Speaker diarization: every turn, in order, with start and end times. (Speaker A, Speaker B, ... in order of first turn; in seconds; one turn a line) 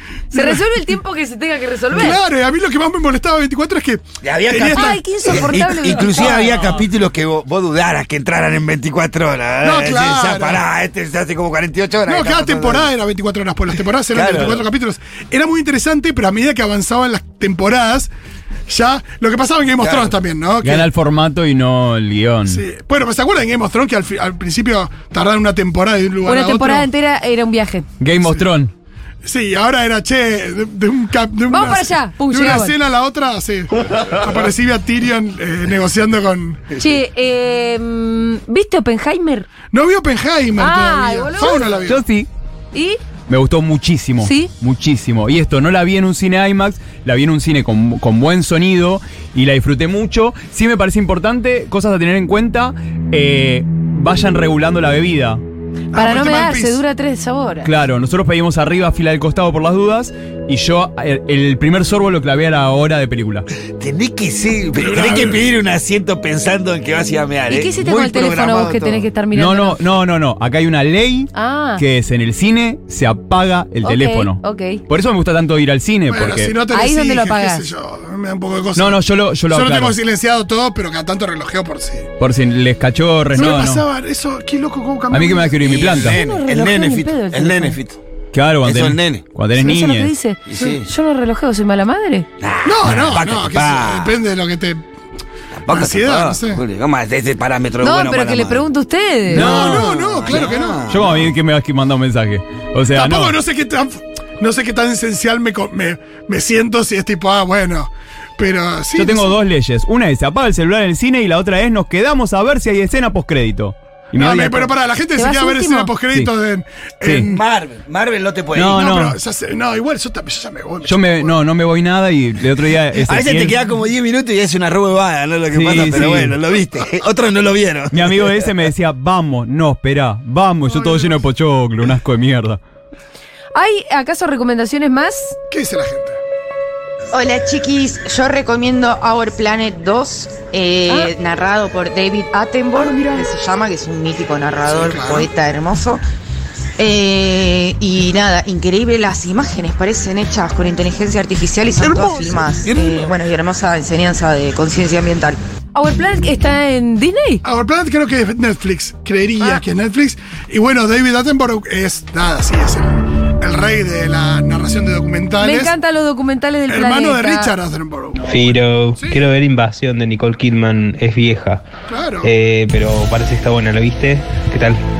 Speaker A: 0.3-0.7
Speaker B: 0.3-2.2
Speaker A: 1.9-5.5
Speaker C: 4.2-12.9
Speaker B: 4.6-6.7
Speaker A: 9.6-10.6
Speaker A: 12.1-18.1
Speaker C: 14.1-14.6
Speaker A: 18.7-20.9
Speaker C: 19.8-20.1
Speaker D: 20.6-22.6
Speaker A: 22.5-26.9
Speaker B: 26.2-27.9
Speaker D: 28.0-28.7
Speaker A: 29.2-36.8
Speaker B: 31.5-32.7
Speaker B: 36.8-39.5
Speaker A: 39.7-42.0
Speaker B: 40.6-41.8
Speaker D: 41.9-42.3
Speaker B: 42.7-43.0
Speaker D: 43.3-55.4
Speaker B: 44.2-44.5
Speaker A: 55.9-56.8
Speaker B: 55.9-57.7
Speaker D: 57.6-63.5
Speaker C: 63.8-69.1
Speaker A: 64.8-65.4
Speaker B: 67.5-69.8
Speaker D: 69.3-76.5
Speaker B: 71.3-71.8
Speaker B: 73.8-74.8
Speaker A: 76.1-79.0
Speaker B: 76.7-77.7
Speaker D: 78.8-80.0
Speaker A: 79.5-82.1
Speaker D: 82.2-83.8
Speaker A: 83.3-85.6
Speaker D: 85.1-86.2
Speaker C: 85.6-88.0
Speaker B: 86.0-87.8
Speaker D: 88.3-90.1
Speaker C: 88.6-89.2
Speaker B: 89.6-92.3
Speaker C: 90.5-90.9
Speaker C: 92.4-94.2
Speaker A: 92.6-94.8
Speaker C: 95.6-98.7
Speaker A: 95.7-96.6
Speaker B: 97.8-99.5
Speaker D: 99.3-103.3
Speaker A: 99.3-100.9
Speaker C: 99.5-101.2
Speaker A: 102.9-109.3
Speaker D: 109.0-114.7
Speaker A: 114.1-117.4
Speaker B: 115.2-115.9
Speaker D: 117.0-117.3
Speaker C: 117.2-118.8
Speaker D: 118.5-119.2
Speaker A: 118.7-121.3
Speaker D: 120.8-123.5
Speaker C: 123.0-128.5
Speaker D: 125.5-126.3
Speaker D: 127.9-132.6
Speaker A: 130.7-131.2
Speaker B: 133.5-135.3
Speaker A: 135.5-136.2
Speaker E: 137.1-146.0
Speaker B: 142.8-143.2
Speaker A: 144.7-145.3
Speaker E: 146.8-155.4
Speaker C: 152.6-153.0
Speaker B: 155.7-157.4
Speaker A: 157.4-165.7
Speaker B: 165.4-167.5
Speaker A: 166.7-169.2
Speaker F: 168.3-171.6
Speaker A: 171.9-172.3
Speaker F: 172.2-174.8